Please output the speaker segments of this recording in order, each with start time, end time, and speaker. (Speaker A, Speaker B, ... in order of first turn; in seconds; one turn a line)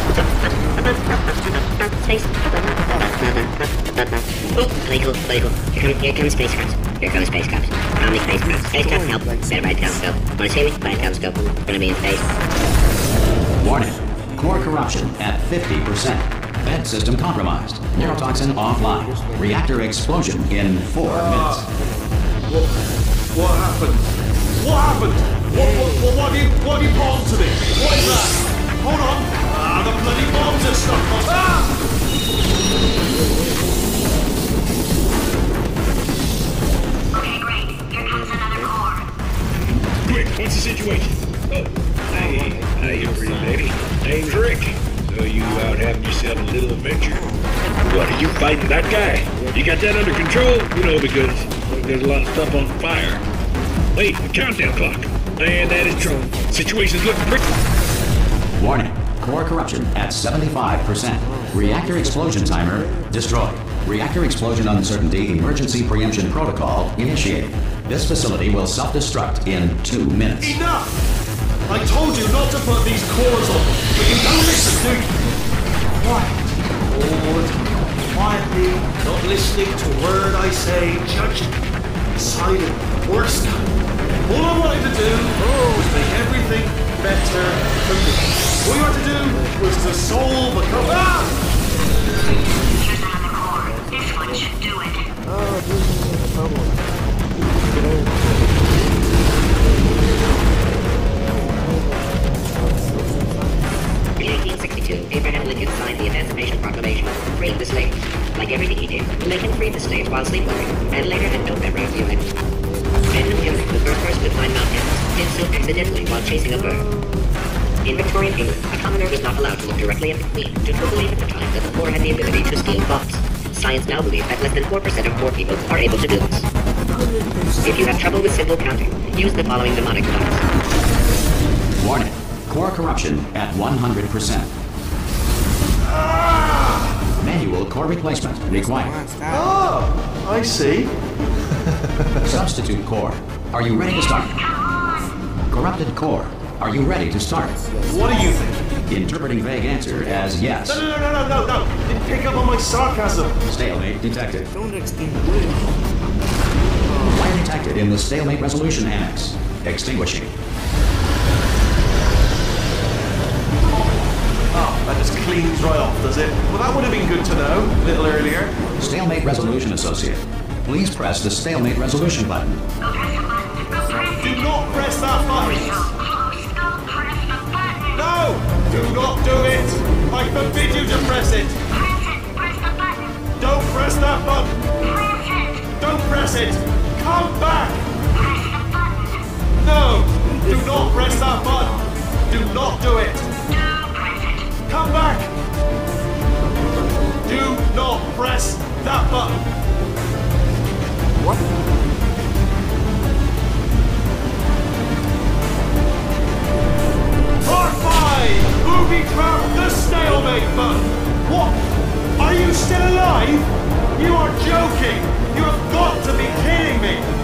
Speaker A: 0.1-12.2
Speaker B: 2.5-3.5
Speaker B: 8.2-15.3
Speaker C: 13.6-21.6
Speaker B: 17.9-19.7
Speaker D: 21.0-21.7
Speaker B: 21.7-22.2
Speaker D: 22.5-22.7
Speaker D: 23.3-31.8
Speaker B: 25.5-26.4
Speaker B: 27.8-28.4
Speaker B: 32.7-35.0
Speaker E: 37.1-39.0
Speaker B: 37.9-38.8
Speaker F: 40.0-47.3
Speaker B: 42.1-44.5
Speaker B: 45.4-45.9
Speaker B: 46.9-49.8
Speaker F: 47.8-53.2
Speaker F: 53.9-57.4
Speaker B: 55.6-56.9
Speaker C: 58.6-70.6
Speaker B: 61.2-63.8
Speaker D: 70.4-71.0
Speaker D: 71.7-75.2
Speaker D: 75.8-81.5
Speaker D: 82.1-83.7
Speaker D: 84.2-91.4
Speaker B: 85.3-86.0
Speaker B: 88.9-89.7
Speaker E: 92.7-95.1
Speaker B: 93.4-94.6
Speaker B: 95.2-103.8
Speaker A: 104.2-112.2
Speaker B: 110.7-111.2
Speaker A: 113.1-116.8
Speaker B: 115.7-117.3
Speaker B: 117.8-118.7
Speaker A: 117.8-126.5
Speaker B: 119.4-119.9
Speaker B: 121.7-122.1
Speaker B: 126.9-128.5
Speaker A: 127.6-130.4
Speaker C: 131.8-134.5
Speaker D: 135.8-137.1
Speaker C: 137.2-139.0
Speaker B: 138.5-139.8
Speaker D: 139.3-140.9
Speaker D: 141.5-142.4
Speaker C: 142.2-144.4
Speaker E: 143.8-145.2
Speaker C: 145.5-147.6
Speaker B: 147.3-148.4
Speaker D: 147.8-148.7
Speaker C: 148.9-150.8
Speaker B: 149.9-150.4
Speaker D: 150.6-153.4
Speaker C: 153.5-154.5
Speaker B: 154.5-155.9
Speaker B: 156.8-157.4
Speaker C: 157.1-160.3
Speaker D: 164.5-168.7
Speaker B: 167.8-169.7
Speaker C: 168.8-172.6
Speaker E: 172.8-178.1
Speaker B: 173.6-175.5
Speaker D: 174.2-175.9
Speaker D: 177.9-181.6
Speaker E: 181.7-183.3
Speaker D: 183.4-184.5
Speaker E: 184.8-185.8
Speaker D: 185.8-187.9
Speaker E: 188.1-189.3
Speaker D: 189.6-193.3
Speaker B: 190.2-192.0
Speaker E: 193.5-194.6
Speaker D: 194.7-195.3
Speaker B: 196.5-197.2
Speaker D: 197.2-199.4
Speaker B: 201.1-201.7
Speaker D: 207.4-211.6
Speaker B: 209.8-210.8
Speaker D: 212.2-217.1